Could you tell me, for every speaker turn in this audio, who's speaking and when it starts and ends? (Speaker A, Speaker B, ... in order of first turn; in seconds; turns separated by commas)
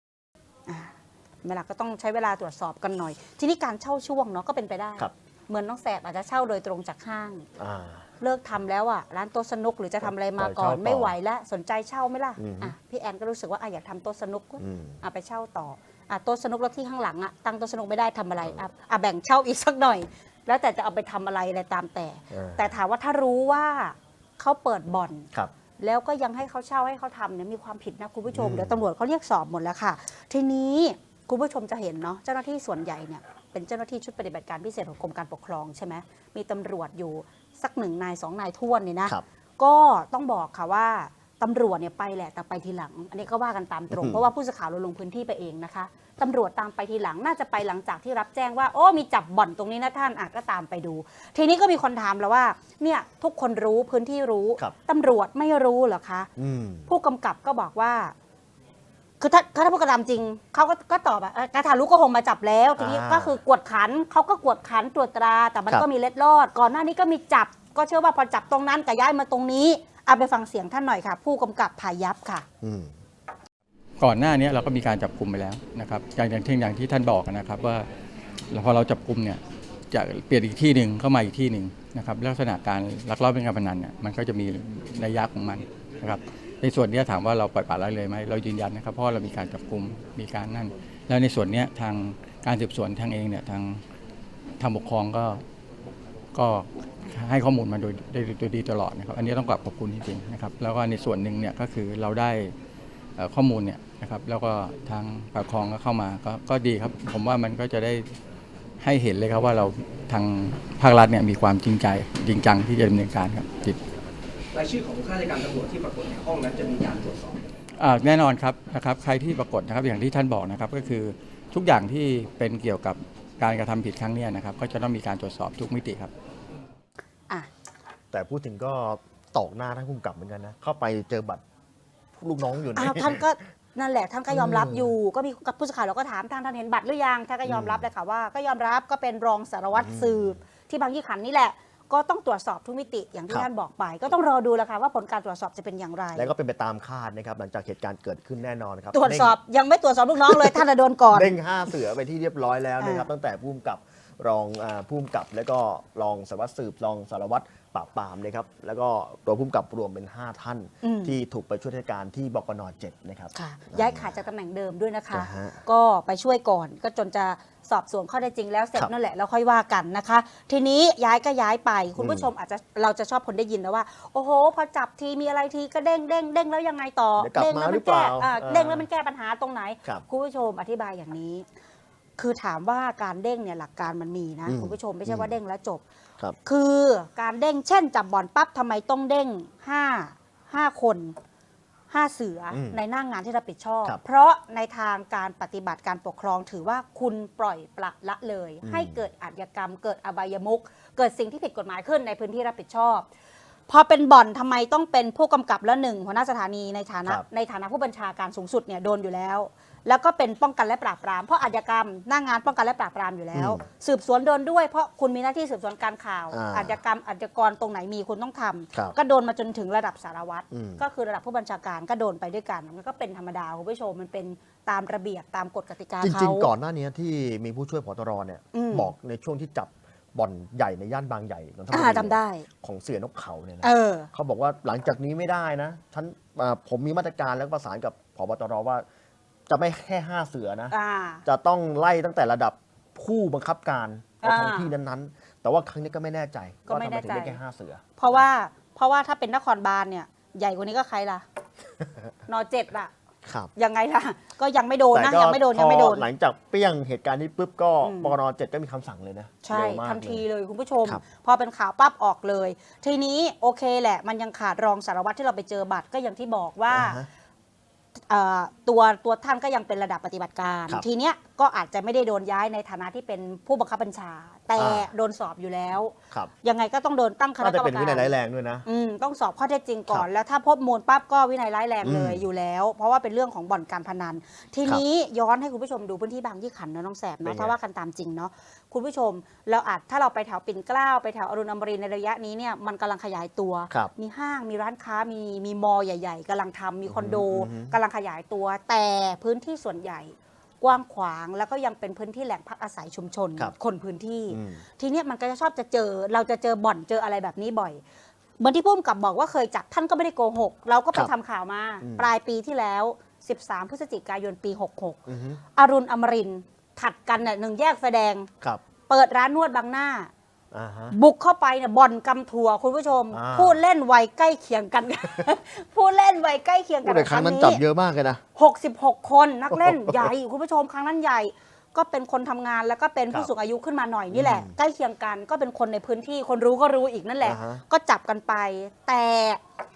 Speaker A: 0.7-7.5, Speaker B: 7.6-8.0, Speaker A: 8.2-25.3, Speaker B: 10.0-11.1, Speaker B: 12.4-12.7, Speaker B: 14.6-15.0, Speaker B: 22.3-22.7, Speaker A: 25.8-56.3, Speaker B: 28.3-28.8, Speaker B: 43.9-44.2, Speaker B: 56.4-56.9, Speaker A: 56.9-58.1, Speaker A: 59.2-72.4, Speaker B: 62.8-63.4, Speaker B: 72.6-72.9, Speaker C: 74.0-77.8, Speaker C: 78.5-93.8, Speaker C: 94.6-95.4, Speaker C: 96.3-102.5, Speaker C: 103.2-108.0, Speaker C: 108.8-113.8, Speaker D: 114.5-117.4, Speaker C: 117.8-126.1, Speaker B: 128.1-131.4, Speaker B: 132.2-133.2, Speaker A: 132.8-146.3, Speaker B: 134.3-134.9, Speaker B: 137.4-137.8, Speaker B: 139.7-140.4, Speaker B: 146.1-149.3, Speaker A: 148.9-151.3, Speaker B: 150.2-150.6, Speaker B: 151.1-164.1, Speaker A: 152.8-153.1, Speaker A: 160.8-161.1, Speaker A: 163.3-181.4, Speaker B: 165.1-165.6, Speaker B: 172.0-172.3, Speaker B: 177.2-178.8, Speaker A: 182.2-185.8, Speaker B: 184.4-185.3, Speaker A: 186.4-191.2, Speaker A: 191.9-203.1, Speaker B: 192.5-192.8, Speaker B: 198.6-199.0, Speaker A: 203.7-226.5, Speaker B: 213.3-213.6, Speaker B: 216.3-216.8, Speaker B: 220.5-220.8, Speaker B: 226.0-238.8, Speaker A: 228.5-228.9, Speaker A: 231.7-232.4, Speaker A: 233.6-234.1, Speaker B: 239.5-240.7, Speaker A: 240.7-241.2, Speaker B: 241.2-248.2, Speaker A: 244.2-244.7, Speaker A: 246.7-247.4, Speaker A: 248.0-251.2, Speaker B: 251.8-252.1, Speaker A: 252.3-252.9, Speaker B: 253.2-253.5, Speaker A: 253.6-256.1, Speaker B: 254.9-260.2, Speaker A: 257.8-258.1, Speaker A: 259.4-267.0, Speaker B: 266.7-267.1, Speaker A: 268.1-278.1, Speaker B: 274.6-274.9, Speaker B: 277.4-278.6, Speaker A: 278.6-307.8, Speaker B: 281.8-282.2, Speaker B: 287.2-287.5, Speaker B: 296.9-297.7, Speaker B: 304.3-304.6, Speaker A: 308.4-315.0, Speaker B: 311.8-312.1, Speaker B: 315.1-315.4, Speaker A: 315.6-318.3, Speaker A: 318.9-320.1, Speaker B: 320.5-320.9, Speaker A: 320.9-327.6, Speaker B: 323.1-323.6, Speaker B: 326.8-328.2, Speaker A: 328.4-339.4, Speaker B: 329.5-330.1, Speaker B: 334.1-334.5, Speaker B: 337.2-337.6